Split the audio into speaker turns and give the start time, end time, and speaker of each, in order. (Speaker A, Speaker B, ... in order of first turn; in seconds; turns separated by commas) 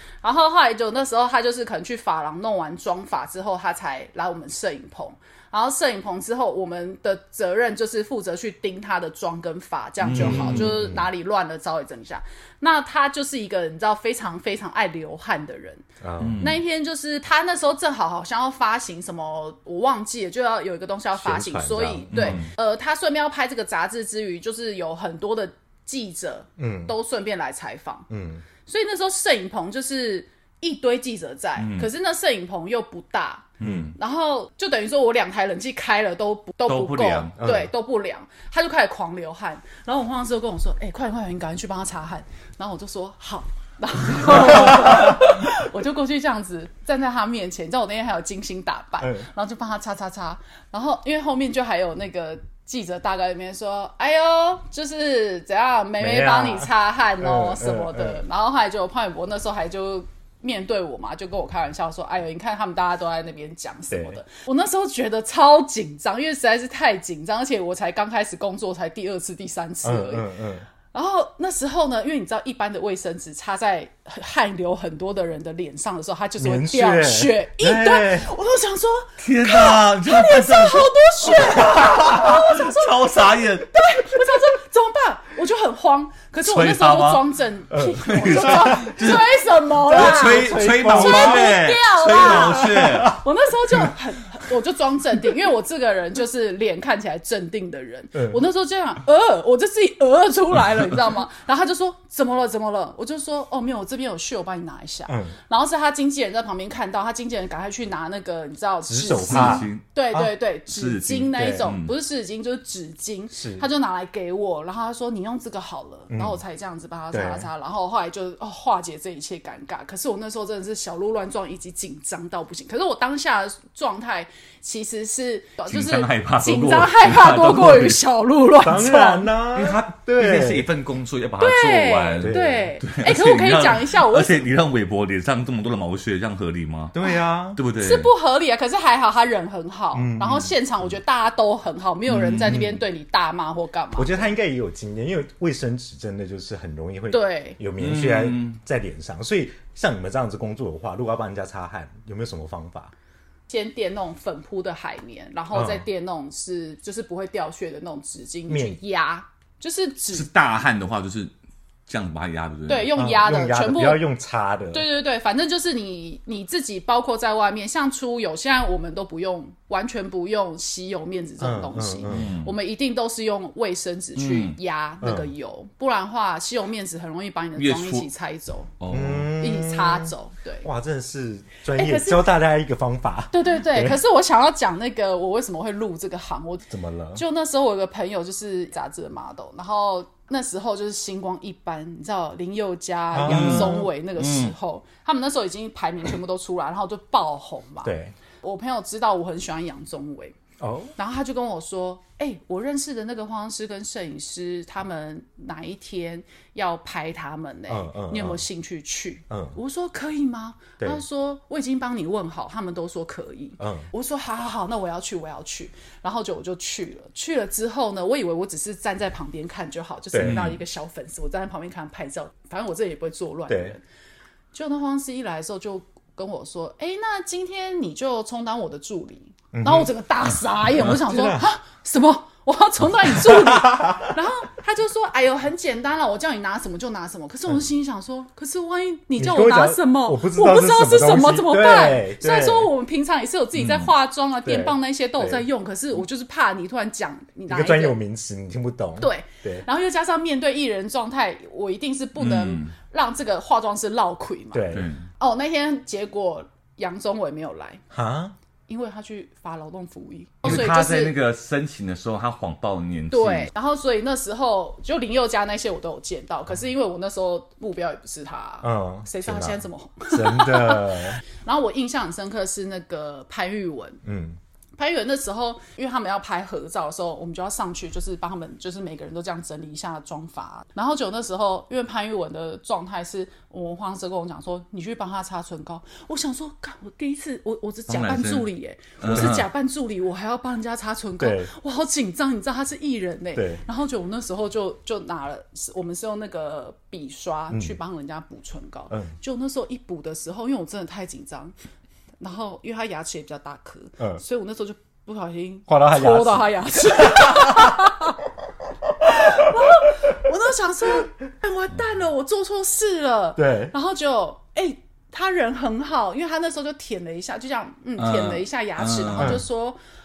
Speaker A: 0.2-15.9, Speaker B: 10.0-10.7, Speaker C: 10.1-11.1, Speaker C: 16.0-16.4, Speaker B: 16.2-16.6, Speaker A: 16.4-28.1, Speaker C: 21.2-22.5, Speaker B: 22.1-22.5, Speaker C: 26.6-26.9, Speaker C: 28.1-28.4, Speaker A: 28.7-70.3, Speaker B: 31.6-31.9, Speaker B: 33.6-34.0, Speaker C: 33.6-33.9, Speaker B: 36.7-37.4, Speaker C: 37.4-37.7, Speaker C: 49.0-49.3, Speaker C: 56.0-58.2, Speaker C: 63.9-64.2, Speaker C: 69.8-70.7, Speaker A: 70.9-129.3, Speaker C: 76.4-78.3, Speaker B: 79.2-83.8, Speaker B: 86.4-87.2, Speaker C: 87.7-89.0, Speaker B: 88.0-93.2, Speaker C: 89.8-93.9, Speaker C: 105.1-105.3, Speaker C: 108.9-110.3, Speaker B: 109.1-109.9, Speaker B: 110.7-111.9, Speaker C: 111.4-111.7, Speaker C: 113.3-113.7, Speaker C: 116.1-116.4, Speaker C: 117.1-117.5, Speaker B: 125.7-128.0, Speaker C: 128.6-130.7, Speaker B: 129.5-136.9, Speaker A: 131.4-134.4, Speaker C: 132.2-132.7, Speaker C: 136.9-137.6, Speaker B: 137.6-138.1, Speaker A: 137.8-144.3, Speaker C: 139.9-140.6, Speaker B: 142.1-142.7, Speaker C: 142.4-142.8, Speaker C: 144.0-152.9, Speaker A: 147.1-147.6, Speaker B: 147.8-148.6, Speaker A: 153.5-160.3, Speaker C: 155.5-155.9, Speaker C: 158.5-158.8, Speaker B: 160.1-161.3, Speaker B: 161.9-162.9, Speaker A: 162.7-164.0, Speaker C: 162.9-164.9, Speaker A: 164.7-178.7, Speaker C: 171.4-172.3, Speaker B: 172.1-172.6, Speaker B: 174.2-174.6, Speaker C: 175.0-175.3, Speaker B: 177.6-178.1, Speaker B: 178.8-179.3, Speaker C: 178.9-184.0, Speaker A: 179.4-180.7, Speaker A: 181.8-182.3, Speaker A: 183.3-200.3, Speaker B: 186.7-187.2, Speaker C: 193.1-193.9, Speaker B: 193.3-194.5, Speaker C: 197.8-198.2, Speaker C: 200.6-200.9, Speaker A: 201.0-223.8, Speaker C: 207.7-208.4, Speaker C: 209.3-209.6, Speaker C: 213.6-213.9, Speaker C: 220.1-220.5, Speaker B: 220.2-220.6, Speaker C: 223.5-223.8, Speaker A: 224.5-248.0, Speaker C: 229.5-229.9, Speaker C: 230.8-231.4, Speaker C: 233.0-234.2, Speaker C: 239.2-242.7, Speaker B: 243.6-243.9, Speaker C: 244.4-245.5, Speaker C: 247.5-249.7, Speaker A: 249.0-257.8, Speaker B: 252.2-252.8, Speaker C: 254.5-254.9, Speaker B: 254.7-255.1, Speaker C: 257.9-258.4, Speaker A: 258.7-261.2, Speaker C: 260.4-260.7, Speaker B: 260.4-263.5, Speaker A: 263.1-274.0, Speaker C: 268.6-271.2, Speaker C: 274.0-274.4, Speaker A: 274.8-301.5, Speaker B: 287.9-288.5, Speaker B: 289.0-289.5, Speaker C: 289.1-289.4, Speaker C: 291.2-291.5, Speaker C: 293.4-293.6, Speaker C: 297.5-297.8, Speaker C: 298.9-299.1, Speaker A: 302.2-308.2, Speaker C: 305.7-307.8, Speaker A: 309.1-319.8, Speaker C: 313.4-313.7, Speaker B: 318.0-319.4, Speaker C: 319.2-319.4